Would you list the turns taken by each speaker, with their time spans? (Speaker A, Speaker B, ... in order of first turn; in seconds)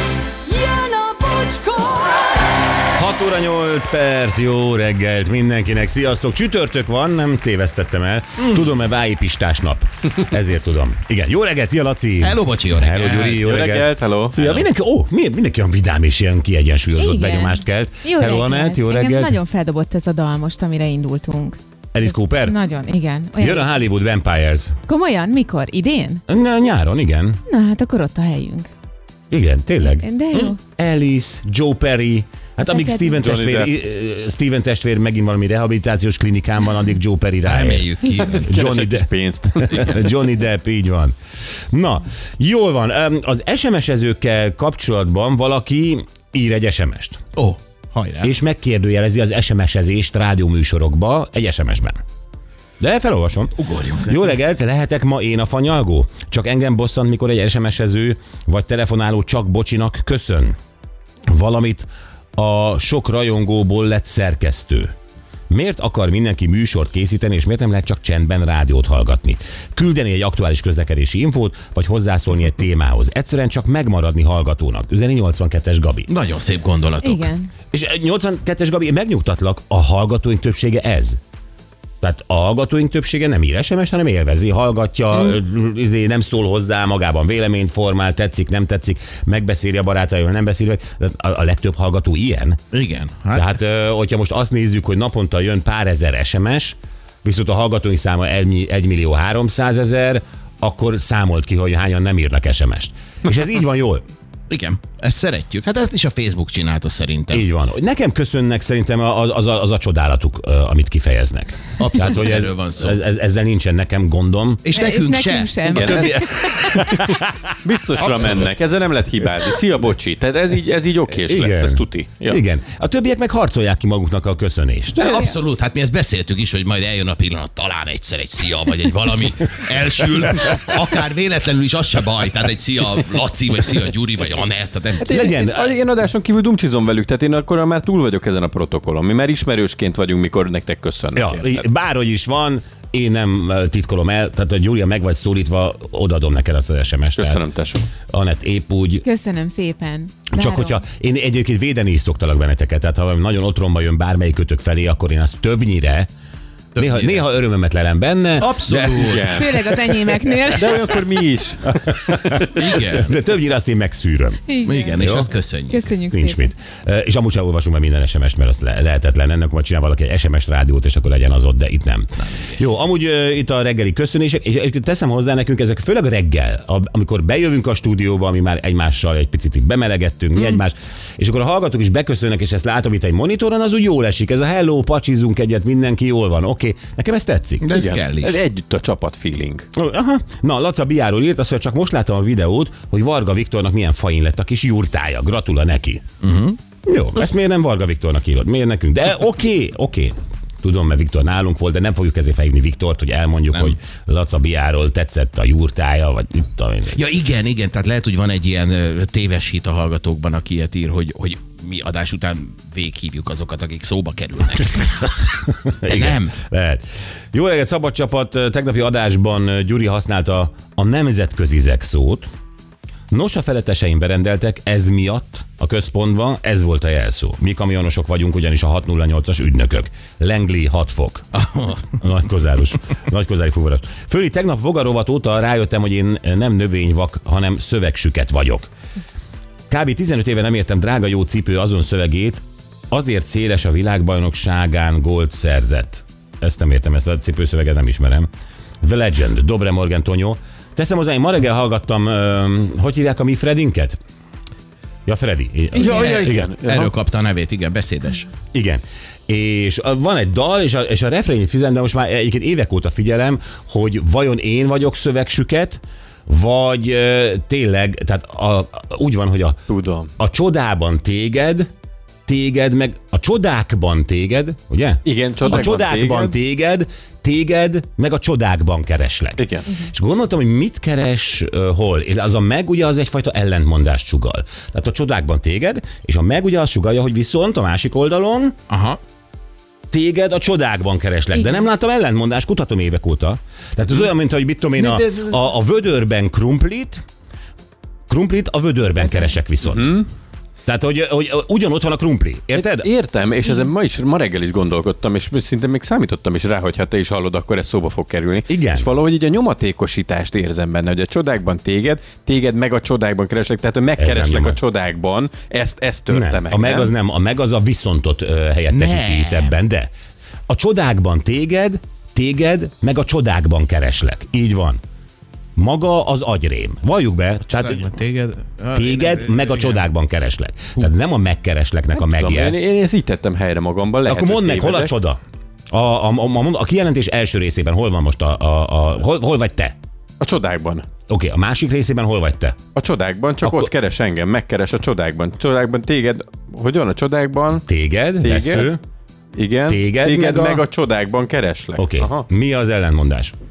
Speaker A: 0.4-2.7
Speaker B: 2.9-19.4, 21.9-22.6, 23.4-24.8, 26.3-27.4, 29.3-30.1, 30.6-41.1, 41.7-47.2, 48.2-52.0, 52.8-60.5, 61.3-64.9, 65.5-76.1, 77.7-81.2, 82.0-92.6, 93.3-104.0, 107.3-114.6, 115.9-117.4, 121.3-125.2, 135.1-135.8, 141.1-147.4, 148.1-149.0, 150.3-156.1, 156.8-159.3, 161.7-165.3, 166.1-187.7, 189.7-196.1, 196.8-207.0, 215.6-222.3, 223.1-231.3, 231.9-238.7, 239.7-248.3, 248.8-254.0, 255.1-256.5, 258.5-269.6, 270.2-271.7, 272.3-288.6, 289.9-297.0, 298.1-300.0, 300.6-302.9, 308.5-308.9, 314.0-314.6, 316.1-319.9, 320.5-324.8, 325.6-327.8, 328.7-332.6, 334.0-335.2, 335.7-339.7, 341.1-342.6, 343.4-343.7, 347.7-348.8, 349.7-350.6, 351.8-353.3
Speaker C: 8.4-8.7, 12.2-13.5, 37.4-38.5, 47.3-48.3, 53.6-54.2, 76.1-77.3, 92.7-93.5, 104.5-107.5, 111.8-113.0, 114.6-116.8, 118.0-118.4, 125.0-135.2, 156.7-157.2, 158.4-159.5, 162.4-163.2, 164.6-165.9, 172.2-172.6, 187.6-188.4, 196.2-196.6, 206.9-216.3, 231.3-231.8, 255.8-258.3, 288.7-289.0, 318.7-319.5, 327.5-329.8
Speaker D: 13.2-14.3, 33.1-33.7, 38.4-40.1, 115.7-116.2, 117.6-122.4, 135.0-141.6, 147.2-147.9, 158.6-159.6, 160.5-161.7, 187.7-189.7, 255.8-256.9, 269.7-270.1, 275.0-276.3, 279.4-279.6, 294.8-295.3, 299.6-300.1, 302.5-316.9, 332.0-334.9, 340.2-340.9, 342.7-347.6, 348.2-348.7, 349.3-352.2
Speaker E: 17.0-21.6, 22.3-23.7, 24.9-26.2, 27.5-28.7, 29.8-30.6, 32.7-33.1, 77.0-77.5, 114.7-116.7, 125.0-125.3, 149.0-150.8, 159.3-161.0, 164.5-164.9, 165.7-166.5